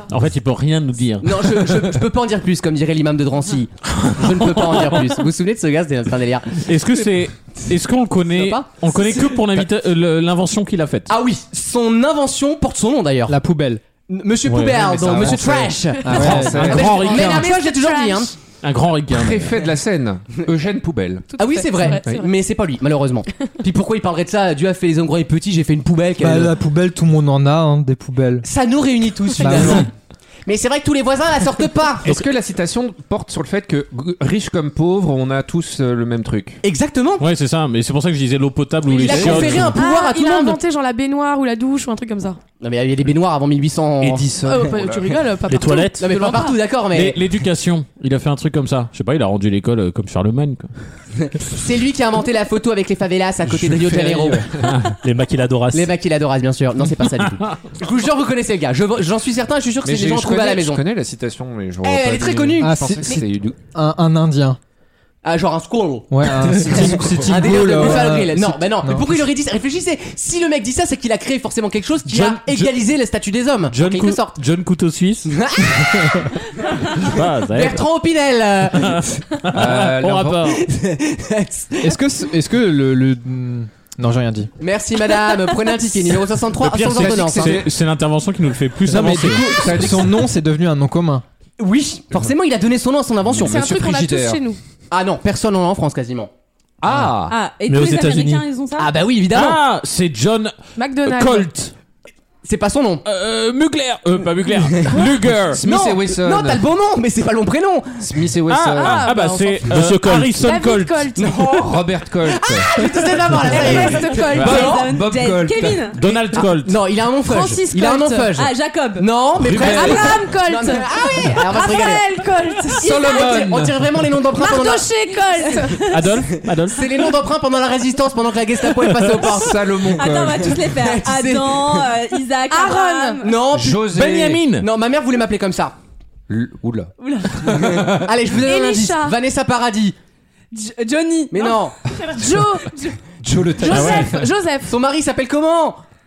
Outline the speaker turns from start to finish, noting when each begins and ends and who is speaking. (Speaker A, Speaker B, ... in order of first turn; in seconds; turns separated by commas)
Speaker A: 0.1-1.7, Speaker B: 1.2-6.7, Speaker A: 4.0-5.2, Speaker A: 6.7-11.1, Speaker B: 8.3-9.4, Speaker B: 11.1-13.4, Speaker C: 13.3-13.8, Speaker B: 14.1-18.4, Speaker A: 14.5-14.9, Speaker D: 14.8-17.2, Speaker C: 16.0-16.9, Speaker A: 16.5-17.5, Speaker E: 16.8-18.3, Speaker A: 18.6-19.6, Speaker D: 19.1-21.4, Speaker E: 21.3-22.3, Speaker B: 21.4-26.5, Speaker C: 26.2-28.5, Speaker B: 28.4-29.9, Speaker C: 29.4-29.9, Speaker B: 30.5-32.1, Speaker D: 32.0-36.6, Speaker B: 36.6-37.2, Speaker A: 37.2-39.8, Speaker B: 38.9-40.6, Speaker D: 39.0-39.7, Speaker E: 39.7-42.4, Speaker B: 42.6-44.3, Speaker D: 44.0-45.2, Speaker E: 44.4-46.6, Speaker F: 45.5-46.1, Speaker B: 46.0-47.2, Speaker A: 46.9-50.7, Speaker B: 51.2-54.5, Speaker D: 53.4-54.9, Speaker F: 54.9-55.9, Speaker B: 55.7-60.8, Speaker D: 59.8-63.6, Speaker B: 61.8-62.9, Speaker C: 62.6-64.6, Speaker B: 65.2-74.4, Speaker C: 66.1-69.2, Speaker A: 72.1-72.7, Speaker A: 73.7-75.3, Speaker B: 75.3-79.4, Speaker A: 76.9-77.8, Speaker A: 78.7-80.6, Speaker D: 79.5-80.6, Speaker B: 80.5-82.0, Speaker C: 81.8-84.5, Speaker B: 84.6-87.6, Speaker A: 86.6-89.9, Speaker D: 86.7-87.7, Speaker C: 88.9-91.2, Speaker D: 89.1-90.3, Speaker B: 91.6-93.6, Speaker D: 93.3-94.4, Speaker E: 93.4-94.6, Speaker B: 94.9-96.3, Speaker D: 96.8-97.3, Speaker G: 97.2-98.9, Speaker F: 97.7-98.5, Speaker B: 98.8-99.6, Speaker A: 99.3-101.7, Speaker E: 100.8-101.5, Speaker B: 102.4-103.0, Speaker A: 103.0-105.6, Speaker B: 104.6-105.0, Speaker D: 104.9-106.7, Speaker B: 105.6-108.3, Speaker D: 108.0-109.1, Speaker A: 108.5-111.2, Speaker E: 108.7-111.7, Speaker F: 109.8-110.3, Speaker B: 111.2-114.9, Speaker D: 111.7-112.8, Speaker D: 113.3-113.7, Speaker E: 113.5-114.8, Speaker G: 113.6-116.0, Speaker D: 114.4-115.9, Speaker A: 115.9-116.8, Speaker B: 116.0-122.0, Speaker E: 117.2-118.3, Speaker G: 118.3-119.1, Speaker A: 119.4-120.0, Speaker E: 119.5-123.4, Speaker D: 122.8-123.9, Speaker G: 122.9-123.4, Speaker B: 123.1-124.8, Speaker E: 124.4-126.1, Speaker A: 125.9-126.8, Speaker B: 126.7-130.0, Speaker D: 129.1-130.7, Speaker G: 129.8-133.3, Speaker B: 130.5-131.9, Speaker E: 132.5-133.2, Speaker B: 133.2-135.7, Speaker D: 133.5-134.4, Speaker A: 133.9-134.7, Speaker D: 136.3-138.1, Speaker G: 137.0-137.6, Speaker B: 137.4-140.0, Speaker E: 138.4-139.2, Speaker G: 140.5-142.9, Speaker B: 141.3-141.8, Speaker E: 142.1-142.8, Speaker D: 143.2-144.3, Speaker E: 143.6-144.7, Speaker A: 143.7-144.1, Speaker B: 144.7-145.8